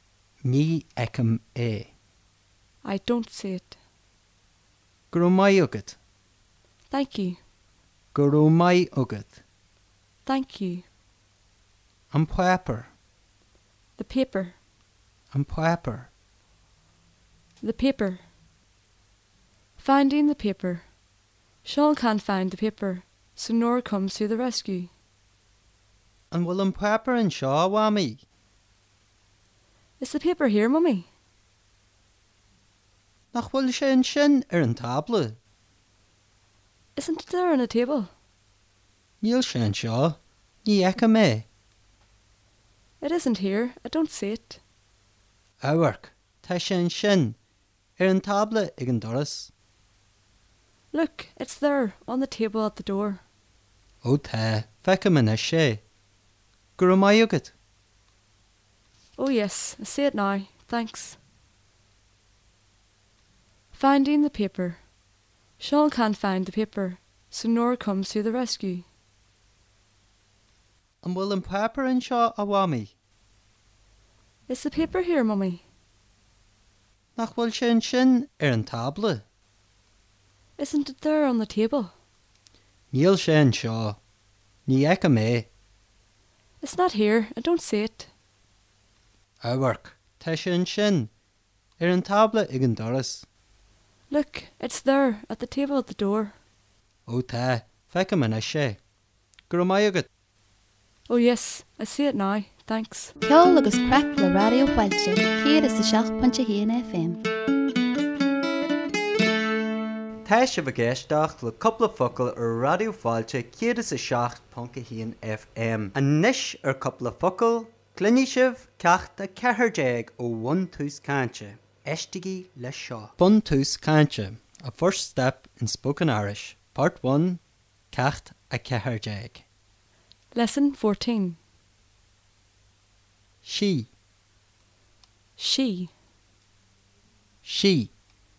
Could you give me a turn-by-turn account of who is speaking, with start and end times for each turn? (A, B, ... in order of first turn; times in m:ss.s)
0:00.4-0:01.9 A
0:02.8-0:03.7 B
0:05.1-0:06.0 A
0:06.9-0:07.4 B
0:08.1-0:09.4 A
0:10.2-0:10.8 B
0:12.1-0:12.9 A
0:14.0-0:14.6 B
0:15.3-0:16.1 A
0:17.6-0:18.2 B
0:19.8-0:20.8 B
0:21.6-0:24.9 B
0:26.3-0:28.2 A
0:30.0-0:31.1 B
0:33.3-0:35.4 A
0:37.0-0:38.1 B
0:39.2-0:41.5 A
0:43.0-0:44.6 B
0:45.6-0:47.4 A
0:48.0-0:49.5 A
0:50.9-0:53.2 B
0:54.0-0:55.8 A
0:56.8-0:57.5 A
0:59.2-1:01.2 B
1:03.7-1:04.8 B
1:05.6-1:08.8 B
1:11.0-1:12.9 A
1:14.5-1:15.6 B
1:17.2-1:19.2 A
1:20.6-1:21.9 B
1:22.9-1:24.0 A
1:24.7-1:25.5 A
1:26.6-1:28.1 B
1:29.4-1:31.1 A
1:31.8-1:33.2 A
1:34.1-1:36.3 B
1:37.0-1:38.8 A
1:39.5-1:40.1 A
1:41.1-1:43.1 B
1:43.2-1:47.2 C
1:50.2-2:07.4 A
2:07.9-2:09.4 A
2:10.3-2:11.4 B
2:13.4-2:13.9 A
2:15.4-2:15.9 B
2:17.4-2:17.9 A